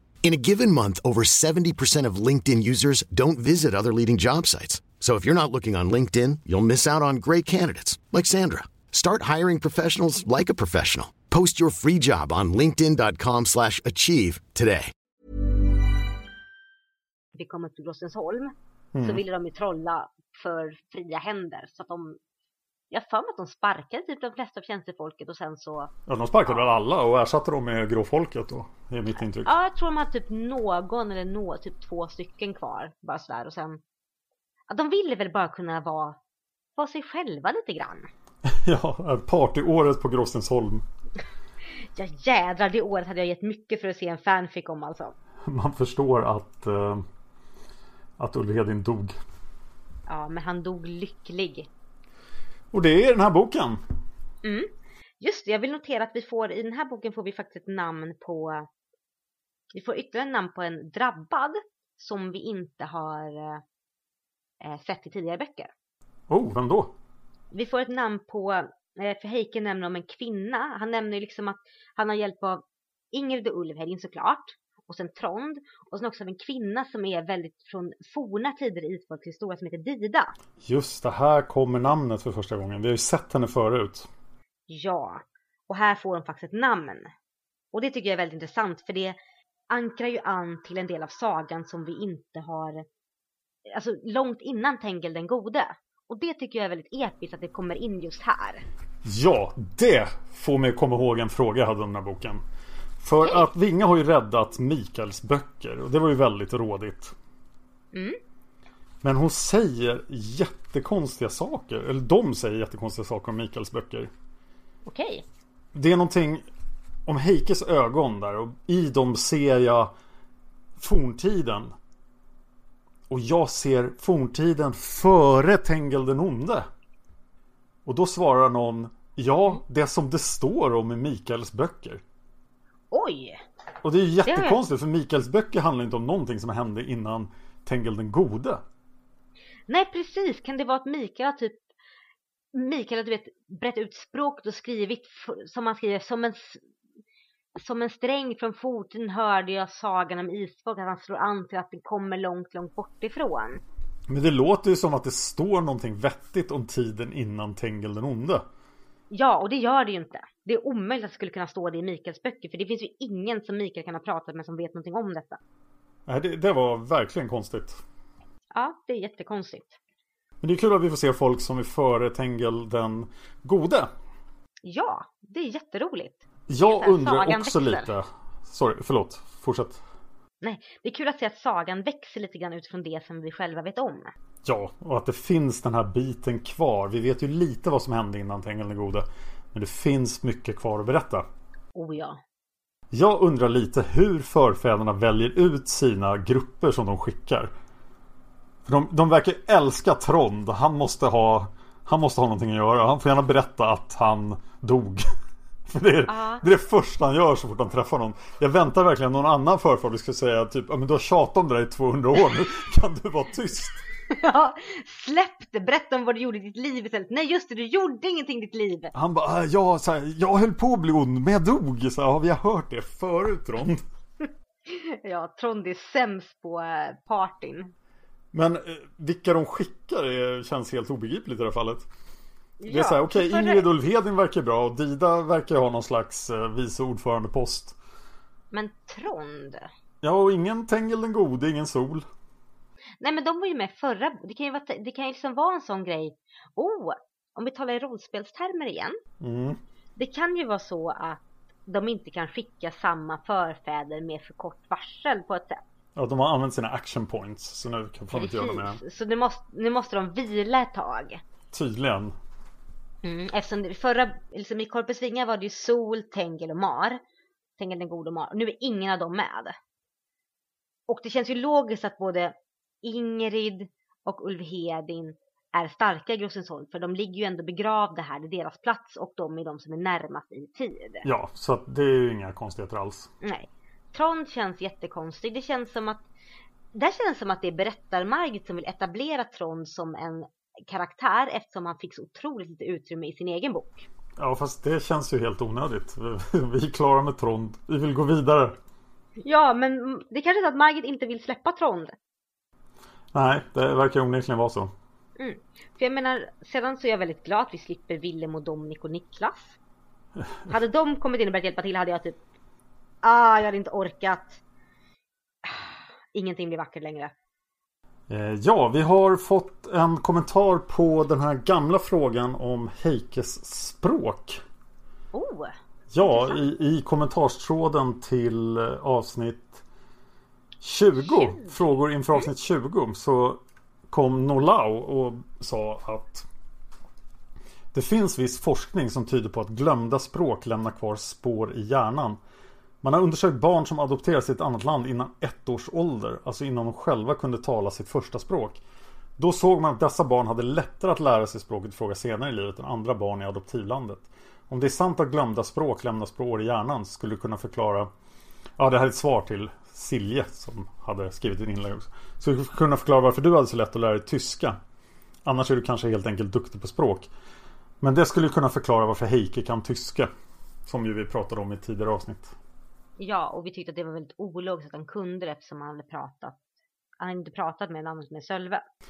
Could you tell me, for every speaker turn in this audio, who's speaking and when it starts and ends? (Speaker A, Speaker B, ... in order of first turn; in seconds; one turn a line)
Speaker A: 0.2-14.9
Speaker B: 17.3-22.2
Speaker C: 18.9-19.2
Speaker B: 22.9-25.9
Speaker C: 26.1-29.5
Speaker B: 29.4-33.8
Speaker B: 34.7-36.2
Speaker B: 36.8-38.1
Speaker C: 38.5-40.9
Speaker B: 42.0-45.1
Speaker C: 45.5-47.0
Speaker C: 48.2-49.1
Speaker B: 50.1-51.7
Speaker C: 52.7-53.8
Speaker B: 54.4-54.7
Speaker B: 55.2-58.7
Speaker B: 59.7-63.6
Speaker B: 64.6-65.7
Speaker C: 66.3-67.0
Speaker B: 67.5-80.3
Speaker C: 80.6-84.1
Speaker B: 84.7-87.1
Speaker B: 87.7-89.2
Speaker B: 89.7-92.8
Speaker B: 93.7-98.7
Speaker C: 99.0-102.4
Speaker C: 103.0-107.1
Speaker B: 107.9-108.2
Speaker C: 109.0-114.1
Speaker B: 114.8-115.2
Speaker C: 115.7-116.5
Speaker C: 117.1-119.9
Speaker C: 120.8-121.7
Speaker C: 123.1-126.7
Speaker C: 127.9-132.0
Speaker B: 132.9-133.4
Speaker C: 133.8-138.6
Speaker B: 134.3-134.6
Speaker B: 139.7-141.6
Speaker B: 142.5-146.6
Speaker B: 147.6-153.6
Speaker C: 154.1-158.5
Speaker B: 159.1-165.4
Speaker C: 166.1-167.8
Speaker B: 168.5-169.8
Speaker C: 170.4-173.9
Speaker B: 174.7-177.9
Speaker C: 176.5-179.8
Speaker B: 180.4-184.1
Speaker C: 184.4-191.3
Speaker B: 191.8-192.2
Speaker C: 192.9-197.5
Speaker C: 198.7-205.1
Speaker C: 205.7-213.8
Speaker B: 206.1-206.4
Speaker B: 214.1-218.9
Speaker C: 218.9-223.8
Speaker B: 224.7-227.7
Speaker C: 228.3-231.9
Speaker B: 232.6-233.7
Speaker C: 232.7-237.8
Speaker B: 238.5-239.7
Speaker C: 240.0-242.1
Speaker B: 243.0-249.0
Speaker C: 249.2-249.6
Speaker B: 250.0-255.6
Speaker C: 256.0-258.8
Speaker B: 258.1-261.2
Speaker C: 261.5-262.1
Speaker B: 263.0-267.0
Speaker B: 267.6-269.6
Speaker B: 270.9-281.1
Speaker C: 281.0-283.1
Speaker B: 283.2-286.1
Speaker B: 286.7-293.9
Speaker C: 294.2-298.6
Speaker B: 299.2-302.0
Speaker C: 303.1-304.7
Speaker B: 305.2-309.6
Speaker B: 310.5-312.2
Speaker B: 313.0-314.4
Speaker B: 315.4-317.1
Speaker C: 318.1-324.4
Speaker B: 325.1-326.5
Speaker C: 325.9-329.6
Speaker C: 330.6-336.3
Speaker B: 331.0-331.5
Speaker C: 337.7-342.2
Speaker C: 342.8-348.6
Speaker C: 349.2-357.9
Speaker C: 358.6-364.6
Speaker C: 365.2-367.1
Speaker C: 367.8-370.1
Speaker C: 370.7-372.3
Speaker B: 373.0-376.4
Speaker B: 377.0-378.6